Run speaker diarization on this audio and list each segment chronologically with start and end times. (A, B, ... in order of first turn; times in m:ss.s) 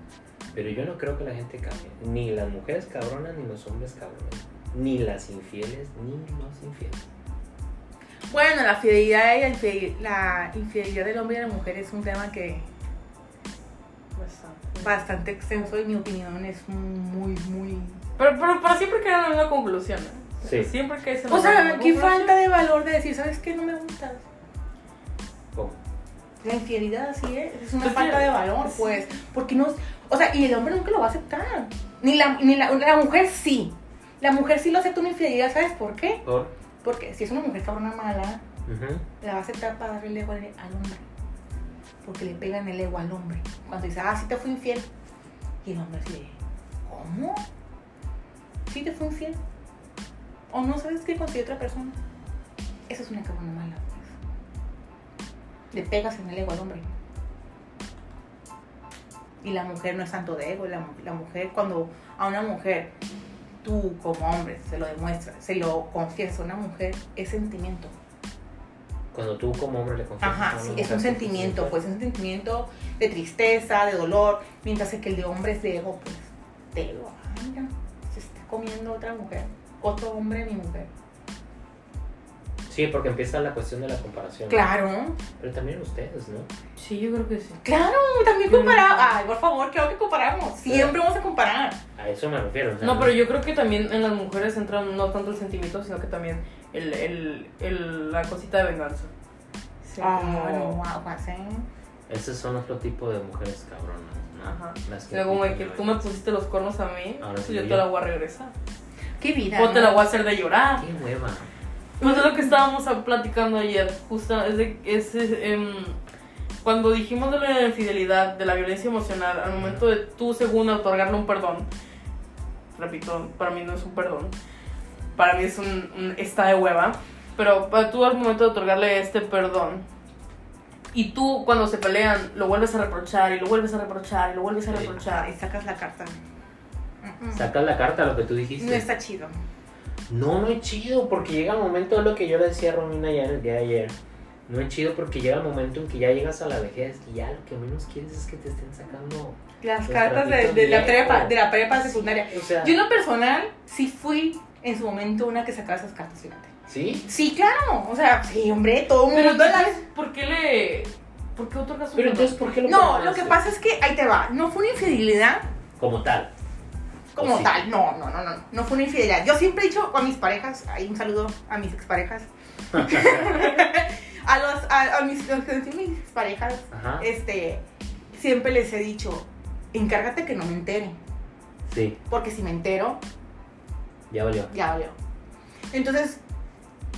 0:00.5-0:07.1 A
0:08.3-0:12.7 B
0:14.2-0:15.0 C
0:14.8-0:18.0 B
0:18.2-0:22.3 C
0:20.4-0:20.7 A
0:21.3-0:24.2 B
0:26.4-0:36.2 B
0:27.8-0:29.0 C
0:36.2-0:36.5 A
0:36.8-0:38.4 B
0:38.6-0:39.0 A
0:39.2-0:41.0 B
0:42.0-0:44.9 B
0:45.6-0:47.4 B
0:48.7-0:49.4 B
0:50.5-0:52.0 B
0:52.9-0:54.1 B
0:55.7-0:56.9 B
0:59.4-1:02.9 B
1:03.6-1:07.9 B
1:09.1-1:11.8 A
1:10.2-1:20.9 B
1:22.7-1:24.7 A
1:24.5-1:25.2 B
1:25.4-1:26.5 A
1:26.8-1:27.6 C
1:27.6-1:31.8 B
1:28.5-1:29.1 C
1:30.7-1:31.0 A
1:32.0-1:33.2 A
1:32.8-1:39.1 C
1:39.8-1:40.8 C
1:40.0-1:41.7 B
1:42.1-1:46.0 A
1:44.4-1:48.5 C
1:47.2-1:47.8 A
1:49.2-1:50.0 B
1:49.6-1:50.8 C
1:50.8-1:51.5 A
1:52.0-1:56.0 C
1:52.0-1:52.5 B
1:56.6-2:01.7 C
1:59.5-1:59.8 A
2:02.7-2:04.3 C
2:05.2-2:09.8 C
2:10.9-2:15.3 C
2:14.7-2:15.0 A
2:15.0-2:16.2 B
2:17.0-2:17.5 B
2:17.3-2:18.8 A
2:18.6-2:19.4 B
2:20.1-2:23.9 A
2:24.5-2:32.8 A
2:29.6-2:36.5 B
2:36.7-2:37.0 A
2:37.0-2:39.8 B
2:39.1-2:42.4 C
2:41.9-2:43.4 A
2:42.6-2:45.4 B
2:45.8-2:46.3 A
2:47.1-3:01.0 B
2:47.2-2:47.6 A
2:52.7-2:53.4 A
2:56.7-2:57.0 A
3:01.7-3:02.0 A
3:02.1-3:03.0 B
3:04.1-3:04.5 A
3:04.5-3:05.0 B
3:05.7-3:06.2 B